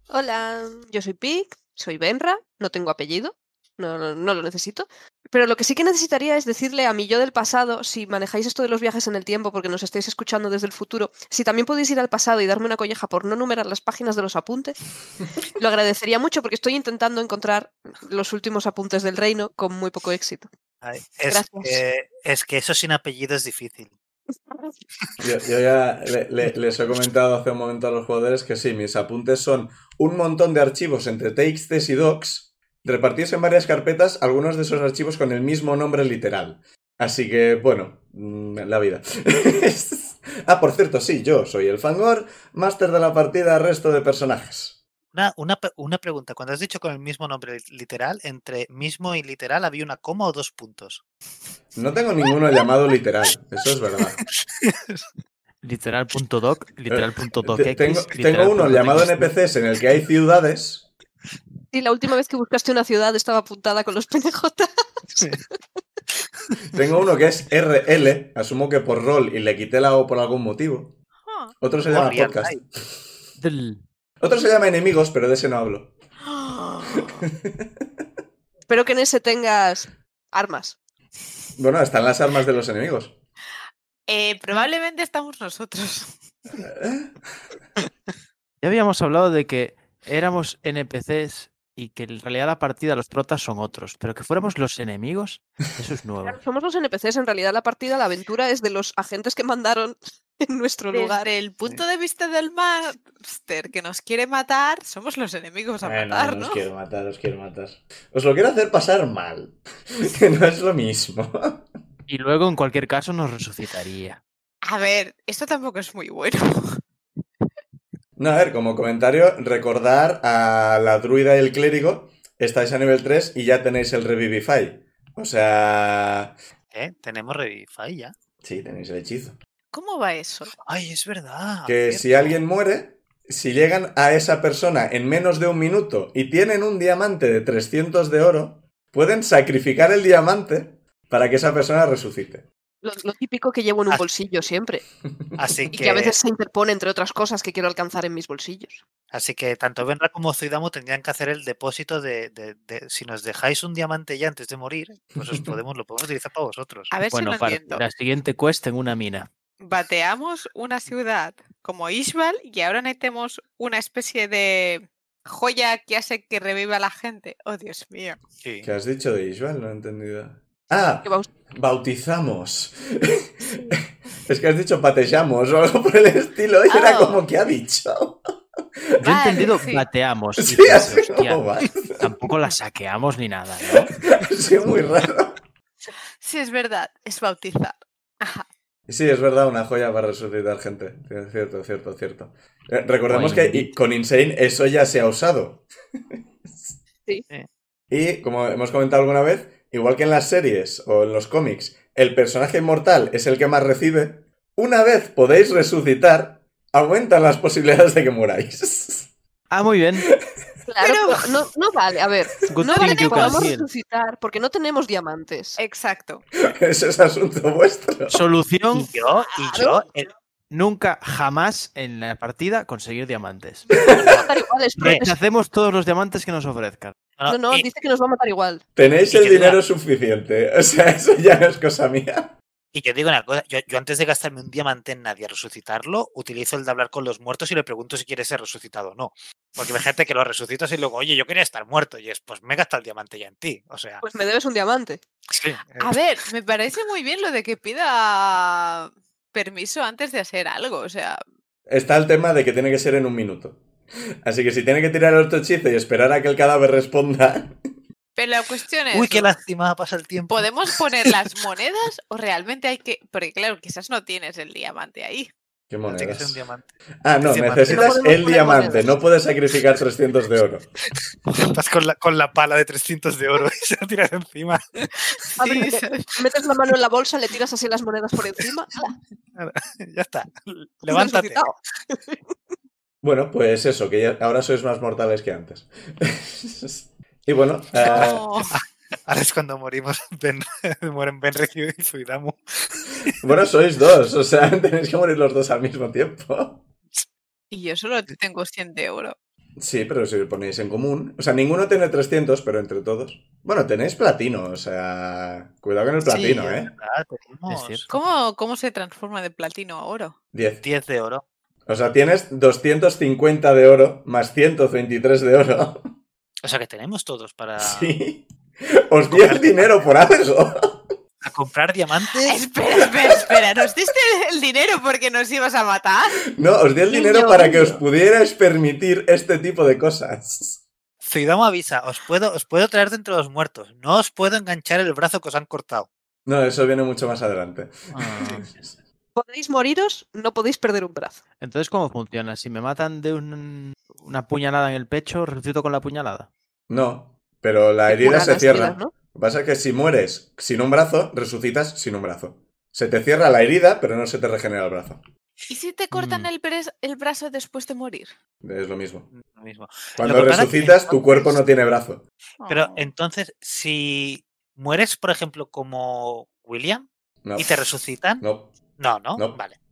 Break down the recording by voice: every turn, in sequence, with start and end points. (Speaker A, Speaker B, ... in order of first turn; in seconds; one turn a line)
Speaker A: 0.1-14.8
Speaker A: 15.6-20.5
Speaker B: 20.8-23.9
Speaker A: 21.3-21.8
Speaker C: 25.2-44.8
Speaker B: 45.1-51.0
Speaker C: 51.7-54.2
Speaker B: 54.7-55.0
Speaker D: 55.6-59.3
Speaker C: 56.9-60.9
Speaker A: 61.7-65.4
Speaker C: 66.7-71.0
Speaker E: 71.2-71.5
Speaker C: 71.6-72.7
Speaker B: 71.8-72.6
Speaker D: 73.4-73.8
Speaker C: 74.2-75.9
Speaker E: 76.2-77.3
Speaker C: 76.9-77.7
Speaker A: 78.7-80.8
Speaker C: 81.6-83.2
Speaker E: 84.1-86.2
Speaker C: 86.6-87.2
Speaker D: 88.6-96.4
Speaker A: 96.2-101.3
Speaker E: 100.9-106.6
Speaker C: 105.8-111.7
Speaker D: 112.1-114.2
Speaker E: 114.6-116.8
Speaker C: 118.2-126.4
Speaker B: 126.7-128.1
Speaker C: 128.4-129.3
Speaker E: 129.7-130.5
Speaker B: 130.6-132.4
Speaker C: 131.7-142.4
Speaker A: 142.8-144.8
Speaker B: 145.4-146.2
Speaker A: 145.7-148.8
Speaker B: 149.1-156.9
Speaker E: 156.9-157.8
Speaker D: 157.1-159.3
Speaker E: 159.6-168.2
Speaker B: 168.4-168.7
Speaker C: 168.6-178.2
Speaker E: 176.7-177.2
Speaker C: 178.8-179.0
Speaker D: 179.0-181.4
Speaker E: 179.0-179.8
Speaker C: 180.4-182.1
Speaker D: 182.0-183.9
Speaker C: 183.7-185.4
Speaker E: 186.2-188.4
Speaker C: 188.9-195.7
Speaker D: 193.1-193.7
Speaker C: 196.5-196.7
Speaker C: 197.9-209.1
Speaker D: 209.5-210.1
Speaker A: 210.7-215.6
Speaker E: 210.8-211.2
Speaker D: 212.4-213.7
Speaker E: 212.7-213.4
Speaker E: 215.6-216.2
Speaker C: 216.4-218.2
Speaker D: 218.1-218.9
Speaker B: 218.7-220.1
Speaker E: 219.3-219.8
Speaker D: 220.5-223.7
Speaker A: 223.8-225.1
Speaker B: 224.0-224.2
Speaker D: 224.8-226.9
Speaker B: 227.2-227.7
Speaker A: 227.2-228.6
Speaker C: 228.8-232.3
Speaker B: 229.1-229.6
Speaker B: 232.7-244.0
Speaker A: 244.0-245.0
Speaker B: 245.3-246.0
Speaker E: 245.8-251.2
Speaker C: 251.7-253.6
Speaker C: 254.2-257.6
Speaker E: 258.1-259.3
Speaker B: 258.9-260.5
Speaker E: 260.3-265.3
Speaker C: 265.7-266.4
Speaker B: 265.9-268.0
Speaker C: 267.0-270.7
Speaker A: 267.7-268.9
Speaker B: 271.3-274.6
Speaker A: 275.4-278.9
Speaker E: 275.4-276.1
Speaker B: 279.3-281.5
Speaker A: 280.9-282.1
Speaker C: 283.0-288.2
Speaker E: 287.8-288.5
Speaker B: 287.8-293.1
Speaker C: 293.2-296.6
Speaker E: 297.5-299.1
Speaker C: 299.6-306.7
Speaker B: 306.0-307.9
Speaker D: 307.5-307.9
Speaker E: 307.9-310.1
Speaker C: 310.3-310.6
Speaker B: 310.6-311.2
Speaker C: 311.7-315.9
Speaker B: 316.4-318.0
Speaker C: 317.6-320.9
Speaker B: 319.1-319.7
Speaker B: 321.2-322.4
Speaker E: 322.2-326.2
Speaker C: 326.3-330.6
Speaker E: 326.9-327.8
Speaker B: 331.0-335.9
Speaker C: 336.2-338.8
Speaker D: 337.9-338.6
Speaker A: 339.1-341.2
Speaker D: 341.4-346.3
Speaker C: 346.7-355.0
Speaker A: 347.9-348.9
Speaker E: 355.5-358.1
Speaker C: 358.4-359.1
Speaker B: 359.1-361.0
Speaker C: 360.0-362.0
Speaker E: 362.4-362.9
Speaker B: 362.5-368.2
Speaker C: 367.2-367.6
Speaker C: 368.2-368.5
Speaker B: 368.8-369.6